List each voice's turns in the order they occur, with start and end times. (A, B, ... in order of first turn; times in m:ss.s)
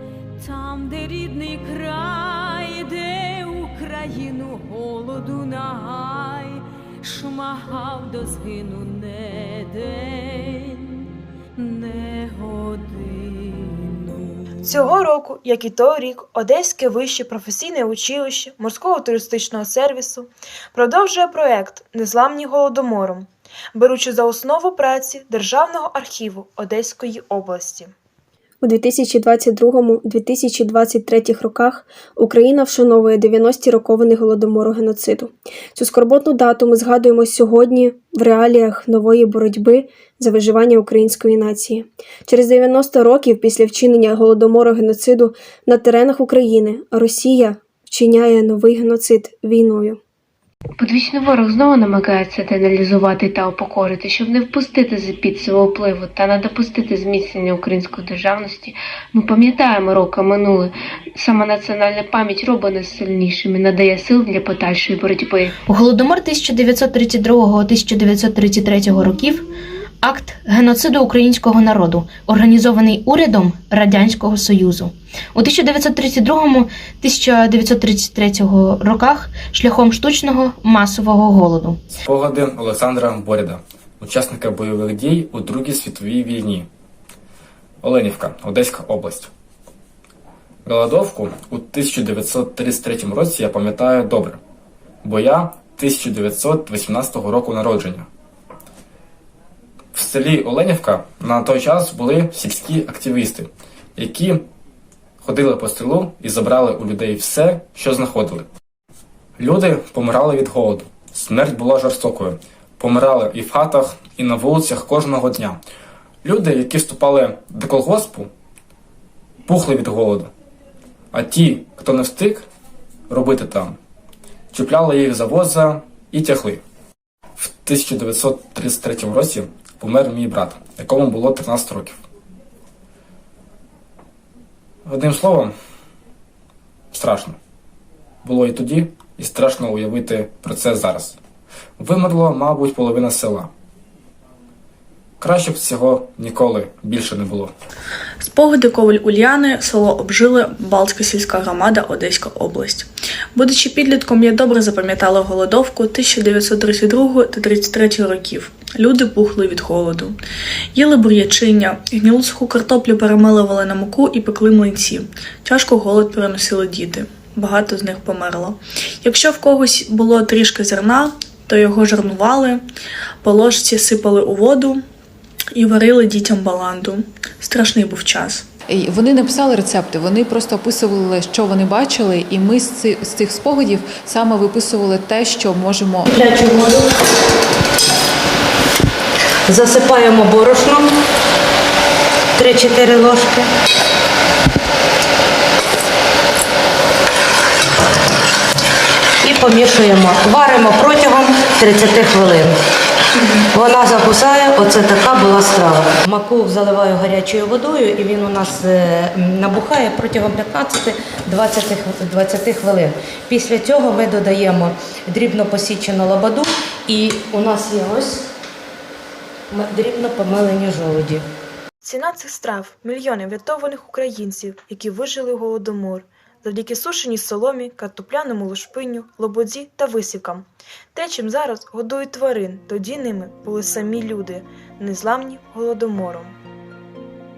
0:00.4-0:14.4 A
0:14.6-0:27.9 B
0:28.6-0:50.0 C
0:50.8-1:05.6 D
1:05.7-1:09.4 E
1:10.0-1:21.8 E
1:22.0-1:26.7 F
1:27.8-1:29.3 F
1:30.6-1:34.4 F
1:35.0-1:38.1 F
1:39.9-1:44.5 F
1:45.2-1:48.5 F
1:49.4-1:55.6 F
1:56.2-1:58.3 F
1:59.5-2:00.3 F
2:01.1-2:02.5 F
2:03.1-2:03.8 F
2:04.5-2:06.6 F
2:07.4-2:12.0 F
2:14.9-2:15.5 F
2:16.9-2:17.4 F
2:18.2-2:21.2 F
2:21.8-2:23.5 F
2:25.2-2:27.5 F
2:28.2-2:40.1 G
2:40.8-2:52.6 G
2:53.2-2:54.8 G
2:55.6-2:58.4 G
2:58.7-3:06.1 H
3:06.1-3:06.8 I
3:09.5-3:10.9 I
3:12.4-3:13.5 I
3:19.2-3:22.6 I
3:23.5-3:38.2 I
3:39.5-3:41.2 I
3:41.8-3:56.4 B